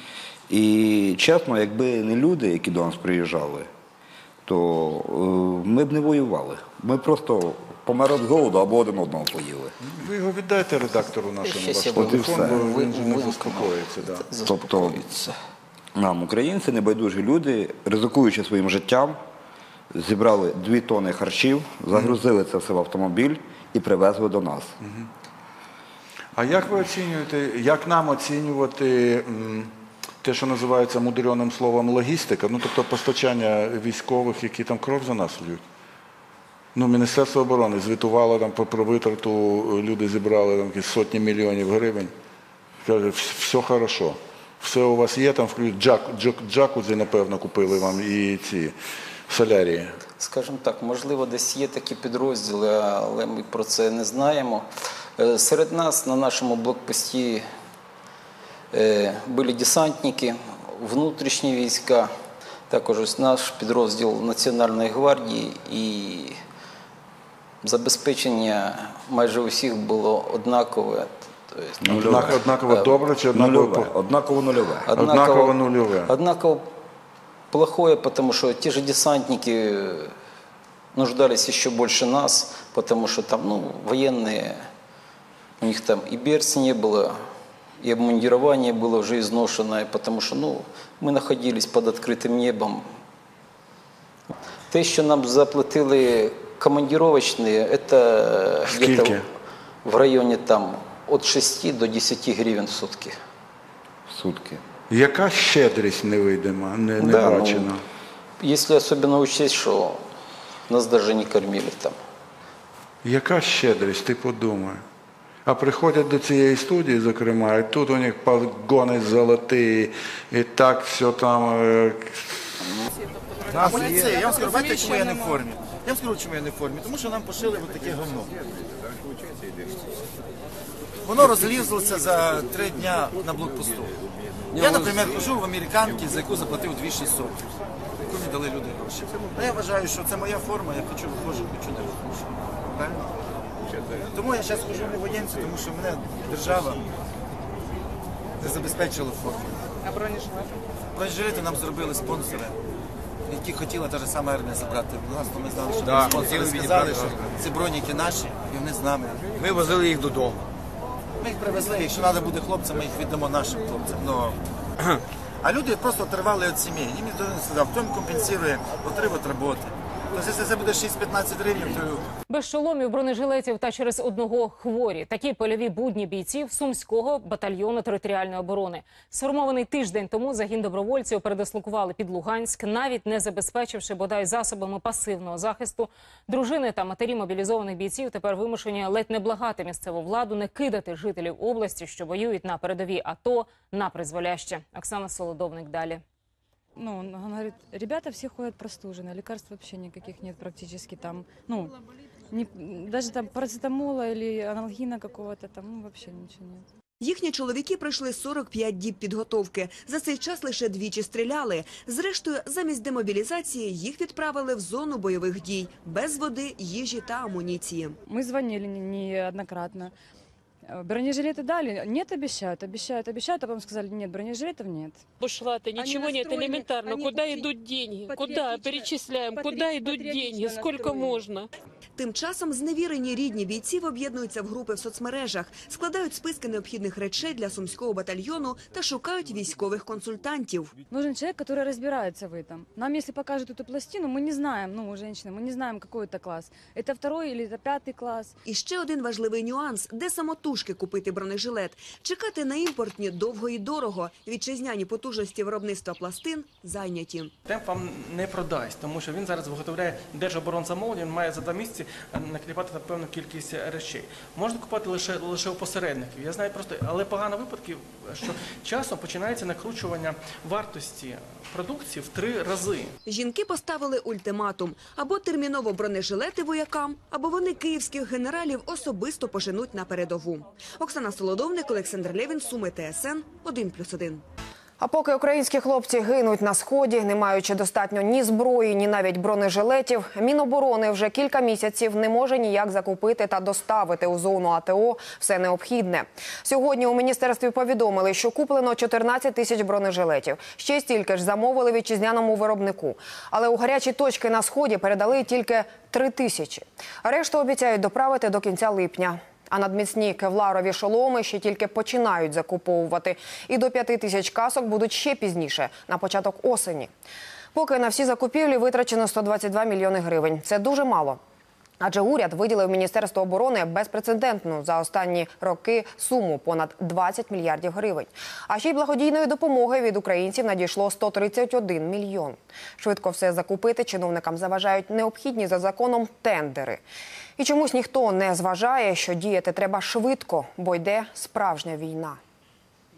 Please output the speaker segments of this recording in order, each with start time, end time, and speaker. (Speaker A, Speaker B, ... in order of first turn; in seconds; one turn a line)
Speaker A: 0.5-3.7
Speaker A: 4.5-9.7
Speaker B: 9.9-14.3
Speaker C: 11.4-15.3
Speaker A: 11.9-12.7
Speaker A: 14.4-15.0
Speaker A: 16.0-19.2
Speaker A: 19.9-24.7
Speaker B: 24.8-25.1
Speaker B: 26.4-29.7
Speaker B: 30.2-35.6
Speaker B: 36.8-42.1
Speaker B: 42.8-48.8
Speaker B: 49.3-50.0
Speaker C: 50.2-54.7
Speaker C: 55.2-57.4
Speaker C: 58.7-62.1
Speaker C: 62.7-66.3
Speaker C: 67.6-73.0
Speaker A: 71.8-72.4
Speaker B: 71.9-73.9
Speaker A: 73.3-74.9
Speaker C: 74.9-76.7
Speaker B: 74.9-76.2
Speaker C: 77.5-80.1
Speaker C: 80.9-84.6
Speaker C: 85.6-87.2
Speaker C: 87.8-92.9
Speaker C: 94.7-99.2
Speaker B: 98.7-99.2
Speaker C: 99.8-103.2
Speaker A: 104.1-104.6
Speaker B: 104.9-107.8
Speaker C: 107.0-107.7
Speaker C: 108.4-110.0
Speaker C: 110.7-112.0
Speaker B: 113.0-114.8
Speaker B: 115.5-122.1
Speaker D: 123.5-128.4
Speaker E: 123.9-124.7
Speaker D: 131.1-133.9
Speaker D: 134.5-137.4
Speaker D: 138.1-143.2
Speaker D: 144.1-146.9
Speaker D: 148.4-149.6
Speaker E: 149.9-150.5
Speaker D: 150.9-152.6
Speaker D: 153.3-159.7
Speaker D: 161.2-164.4
Speaker D: 165.4-172.1
Speaker F: 172.3-196.0
Speaker G: 196.8-201.7
Speaker G: 202.3-206.7
Speaker H: 207.0-217.9
Speaker G: 218.1-219.9
Speaker G: 220.7-225.0
Speaker E: 225.2-231.5
Speaker G: 225.9-227.2
Speaker G: 230.5-230.8
Speaker H: 232.0-240.7
Speaker G: 240.9-248.3
Speaker H: 248.5-257.3
Speaker I: 257.5-272.9
Speaker H: 273.1-284.2
Speaker J: 284.8-316.9
Speaker J: 317.5-321.2
Speaker J: 321.8-336.8
Speaker J: 337.4-342.2